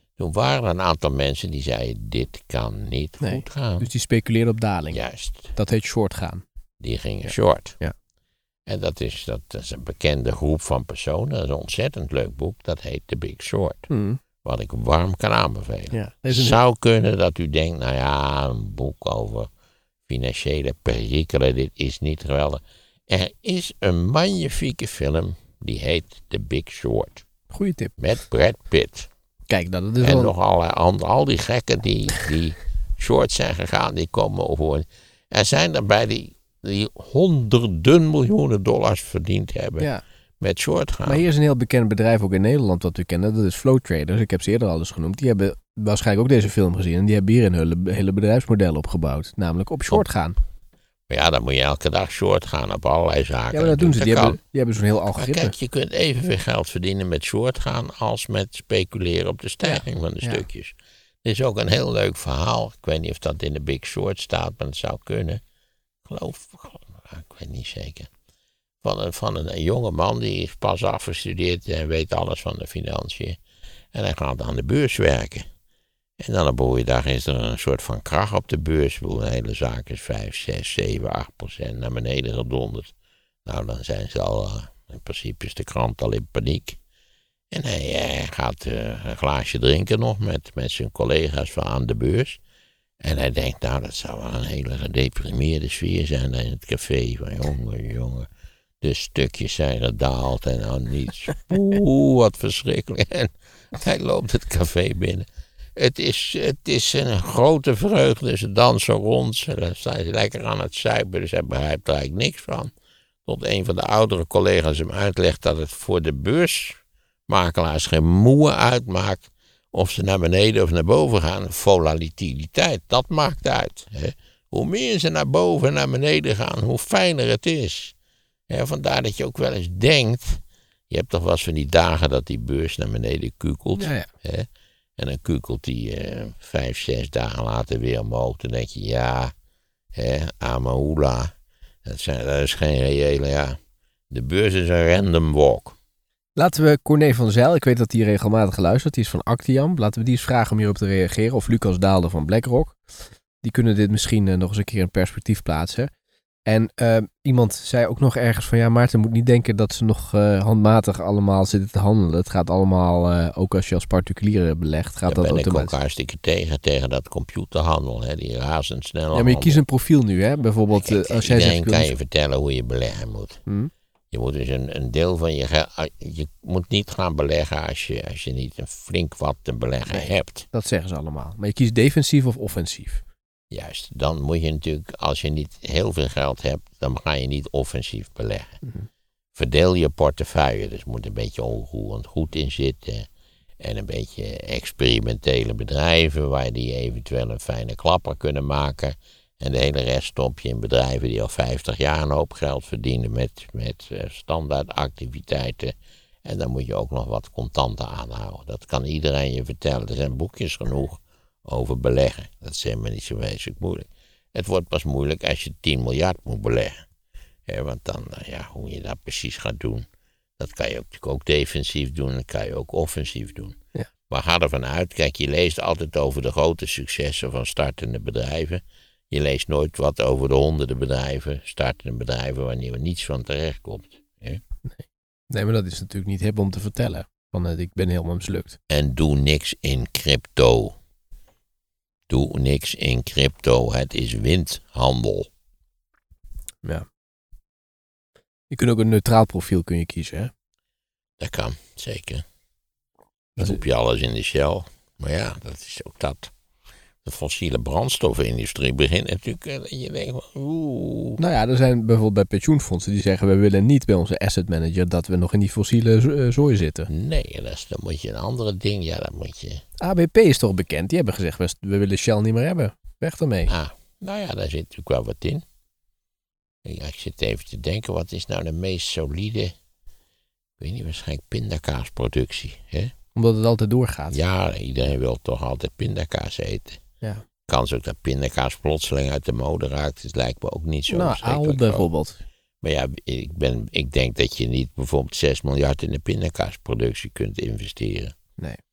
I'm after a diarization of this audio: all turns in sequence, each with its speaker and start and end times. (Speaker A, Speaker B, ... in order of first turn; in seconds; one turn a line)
Speaker A: 0.2-3.9
Speaker B: 3.2-6.4
Speaker A: 4.9-5.5
Speaker A: 6.8-7.8
Speaker B: 7.2-7.9
Speaker A: 8.7-13.9
Speaker B: 13.9-14.2
Speaker A: 14.4-19.5
Speaker B: 15.9-16.6
Speaker A: 20.1-27.2
Speaker B: 27.5-27.9
Speaker A: 28.0-29.1
Speaker B: 29.5-30.3
Speaker A: 30.0-39.9
Speaker A: 40.4-41.2
Speaker B: 41.1-50.4
Speaker A: 51.1-54.4
Speaker B: 53.5-55.5
Speaker A: 55.1-65.4
Speaker B: 59.6-60.4
Speaker A: 66.0-68.1
Speaker A: 68.8-73.4
Speaker A: 73.9-75.5
Speaker A: 76.2-82.9
Speaker A: 83.5-86.8
Speaker A: 87.5-92.4
Speaker A: 93.0-98.3
Speaker A: 98.8-112.7
Speaker A: 113.3-127.9
Speaker A: 128.5-134.5
Speaker B: 133.8-134.1
Speaker A: 135.0-139.3
Speaker A: 139.9-141.3
Speaker A: 141.8-143.6
Speaker A: 144.1-145.8
Speaker B: 146.4-152.8
Speaker B: 153.4-155.9
Speaker B: 156.5-165.7
Speaker A: 165.1-169.6
Speaker B: 169.1-171.9
Speaker A: 170.7-173.4
Speaker B: 173.5-173.7
Speaker A: 174.1-180.5
Speaker B: 179.9-183.0
Speaker A: 183.5-188.6
Speaker A: 189.3-193.1
Speaker A: 193.6-205.7
Speaker A: 206.2-216.8
Speaker A: 217.5-219.9
Speaker A: 220.4-223.6
Speaker A: 224.1-234.4
Speaker B: 234.7-238.6
Speaker A: 238.7-240.8
Speaker A: 242.1-245.3
Speaker B: 248.5-250.3
Speaker A: 251.2-252.2
Speaker A: 253.4-256.3
Speaker A: 257.0-261.2
Speaker B: 261.2-266.9
Speaker A: 266.9-269.6
Speaker B: 269.8-273.5
Speaker A: 273.5-275.4
Speaker A: 276.6-279.5
Speaker A: 280.6-282.9
Speaker B: 283.1-284.2
Speaker A: 284.1-286.8
Speaker A: 287.5-291.9
Speaker B: 290.9-292.2
Speaker A: 292.6-298.1